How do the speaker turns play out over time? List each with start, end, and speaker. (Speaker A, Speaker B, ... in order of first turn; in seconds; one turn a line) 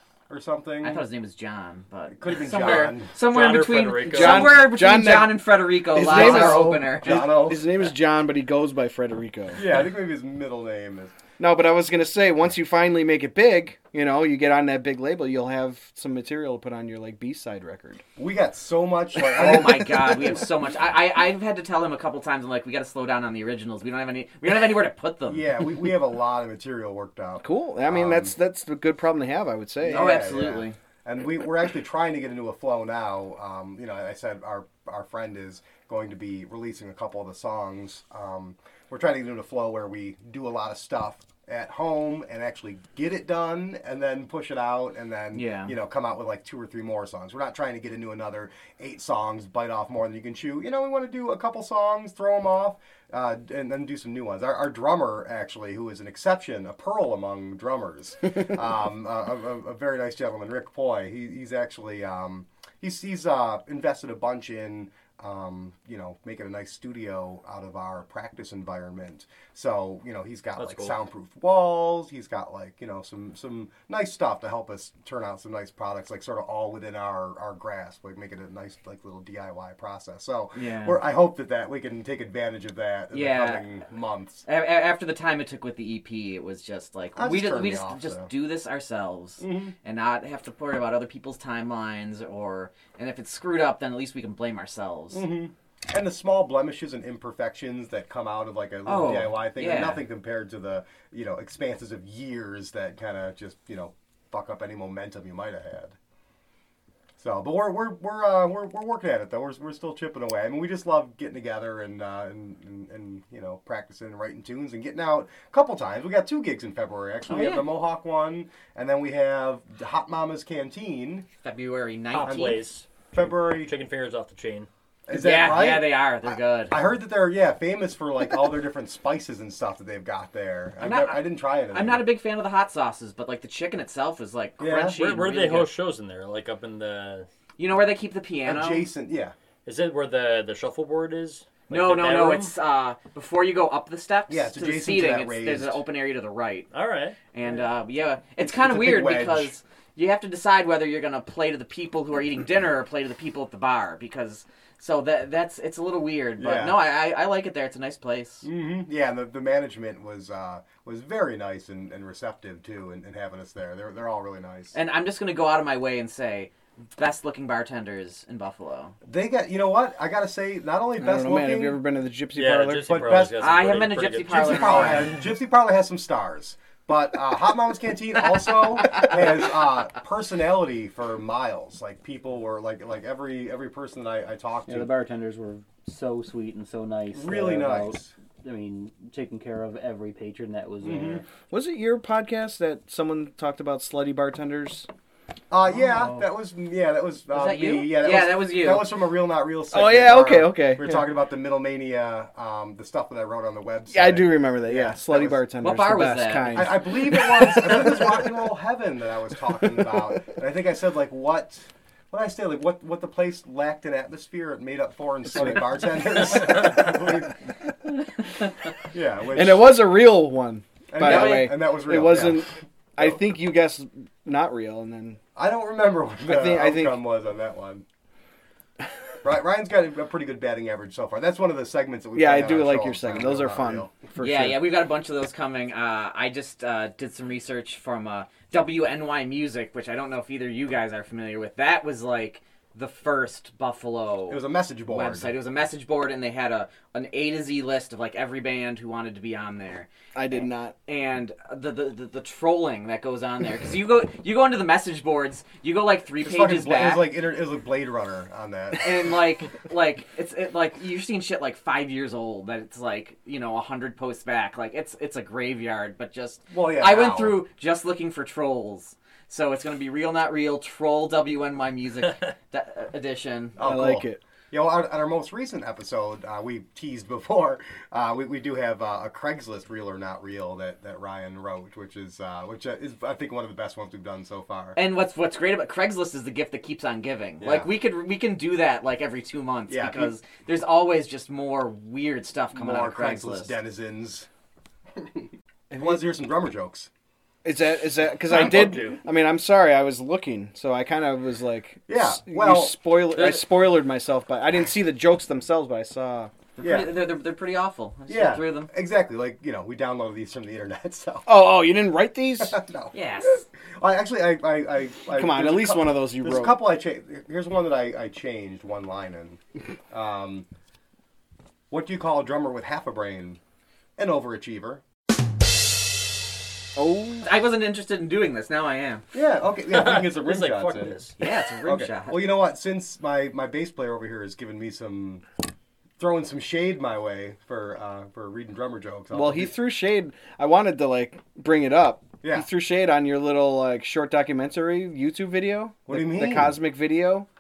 Speaker A: 0.3-1.0
Speaker B: 0.8-7.3
Speaker A: 2.1-3.1
Speaker C: 3.2-4.7
Speaker D: 4.1-9.6
Speaker A: 6.0-7.7
Speaker A: 9.6-11.1
Speaker D: 11.4-18.0
Speaker A: 18.2-20.4
Speaker B: 19.2-25.6
Speaker D: 19.5-19.9
Speaker A: 25.3-28.3
Speaker D: 27.4-30.1
Speaker A: 29.8-84.5
Speaker B: 29.9-30.8
Speaker B: 45.3-45.7
Speaker C: 70.6-71.0
Speaker B: 80.5-81.0
Speaker B: 83.1-83.7
Speaker B: 84.5-95.2
Speaker A: 87.2-88.3
Speaker A: 89.4-89.7
Speaker A: 95.1-106.0
Speaker B: 98.9-100.0
Speaker A: 107.2-121.3
Speaker B: 117.3-117.7
Speaker B: 121.4-122.6
Speaker C: 122.1-124.7
Speaker A: 122.2-122.6
Speaker A: 123.1-123.7
Speaker A: 125.1-132.1
Speaker B: 125.1-126.8
Speaker B: 130.8-135.7
Speaker A: 134.6-135.0
Speaker C: 134.9-137.3
Speaker B: 137.6-138.9
Speaker A: 138.5-139.3
Speaker C: 139.7-142.5
Speaker B: 141.7-146.7
Speaker A: 144.3-145.8
Speaker C: 146.7-147.2
Speaker B: 147.3-158.5
Speaker A: 148.4-149.5
Speaker A: 156.4-156.8
Speaker A: 158.4-164.7
Speaker B: 164.7-168.9
Speaker A: 169.1-171.8
Speaker D: 171.0-173.3
Speaker C: 172.4-175.2
Speaker A: 172.9-184.9
Speaker B: 173.4-175.2
Speaker E: 184.7-191.2
Speaker A: 187.1-188.1
Speaker A: 190.8-191.2
Speaker D: 191.5-194.9
Speaker A: 195.5-205.4
Speaker B: 197.3-198.9
Speaker D: 199.7-201.0
Speaker D: 203.9-207.8
Speaker B: 205.6-206.7
Speaker A: 206.5-217.4
Speaker A: 218.9-219.8
Speaker D: 219.3-225.2
Speaker A: 220.9-223.2
Speaker B: 221.0-221.5
Speaker A: 225.4-227.8
Speaker D: 226.3-227.0
Speaker A: 229.2-233.9
Speaker D: 232.2-234.7
Speaker B: 234.2-257.1
Speaker A: 244.3-245.3
Speaker D: 250.2-250.7
Speaker A: 256.2-259.2
Speaker B: 258.8-273.6
Speaker A: 266.5-267.4
Speaker A: 273.6-284.8
Speaker D: 273.6-274.2
Speaker B: 284.8-293.5
Speaker A: 287.4-287.7
Speaker A: 289.7-290.1
Speaker A: 292.5-294.3
Speaker A: 295.0-296.9
Speaker D: 297.4-306.3
Speaker C: 298.3-299.0
Speaker A: 301.9-302.9
Speaker B: 303.1-303.4
Speaker B: 306.6-308.7
Speaker A: 306.6-307.0
Speaker A: 308.1-311.3
Speaker D: 311.3-312.6
Speaker A: 312.4-320.5
Speaker B: 312.9-313.4
Speaker D: 315.1-316.6
Speaker A: 321.7-323.4
Speaker A: 324.0-324.8
Speaker D: 326.8-327.3
Speaker B: 327.2-329.1
Speaker A: 329.1-331.0
Speaker C: 329.7-331.2
Speaker B: 331.2-332.3
Speaker A: 331.6-335.2
Speaker A: 336.0-339.5
Speaker D: 339.1-347.3
Speaker A: 342.2-342.5
Speaker A: 345.9-346.6